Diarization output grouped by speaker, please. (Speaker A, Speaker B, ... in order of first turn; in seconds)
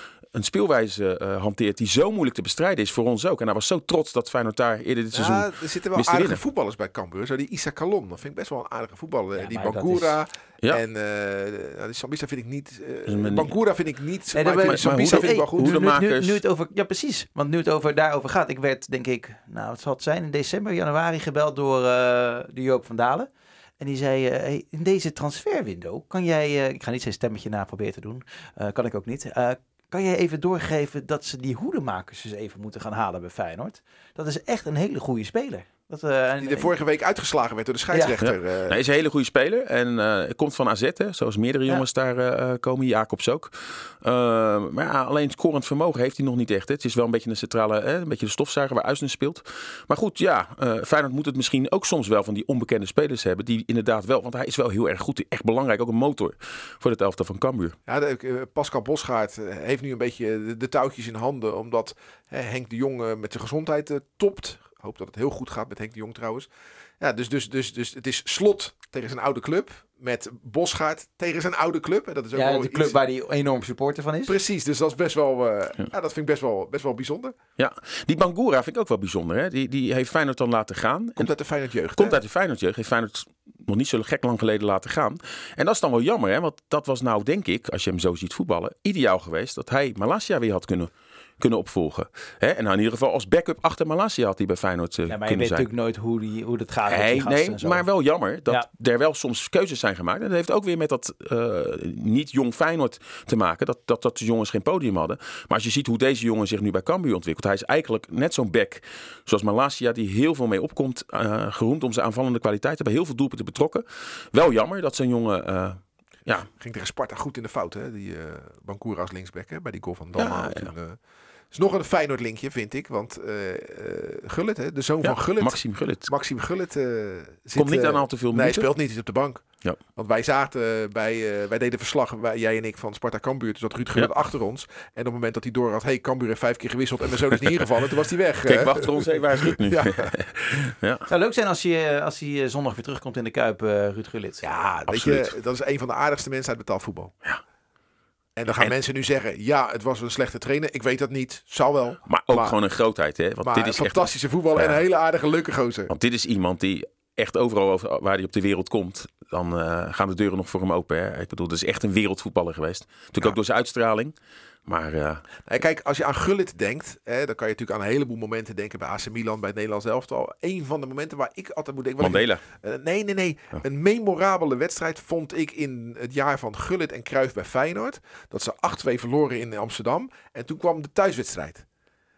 Speaker A: 0.3-6.4, 13.1-13.5, 14.6-16.4, 38.2-57.8, 77.6-81.3, 82.0-95.7, 96.9-116.5, 120.2-120.7, 125.0-126.1, 127.5-128.7, 138.4-141.1, 144.9-145.3, 152.1-154.8, 155.9-164.1, 164.7-165.2, 172.0-172.4
Speaker B: 5.1-15.8, 36.4-38.8, 57.9-66.5, 67.0-73.0, 74.2-77.3, 81.2-82.2, 116.5-121.0, 121.5-140.1, 144.4-147.1, 148.3-152.6, 153.4-155.9, 165.4-181.7
Speaker C: 9.3-10.2, 14.3-23.3, 23.8-36.7, 72.3-74.3, 95.1-97.8, 141.1-144.4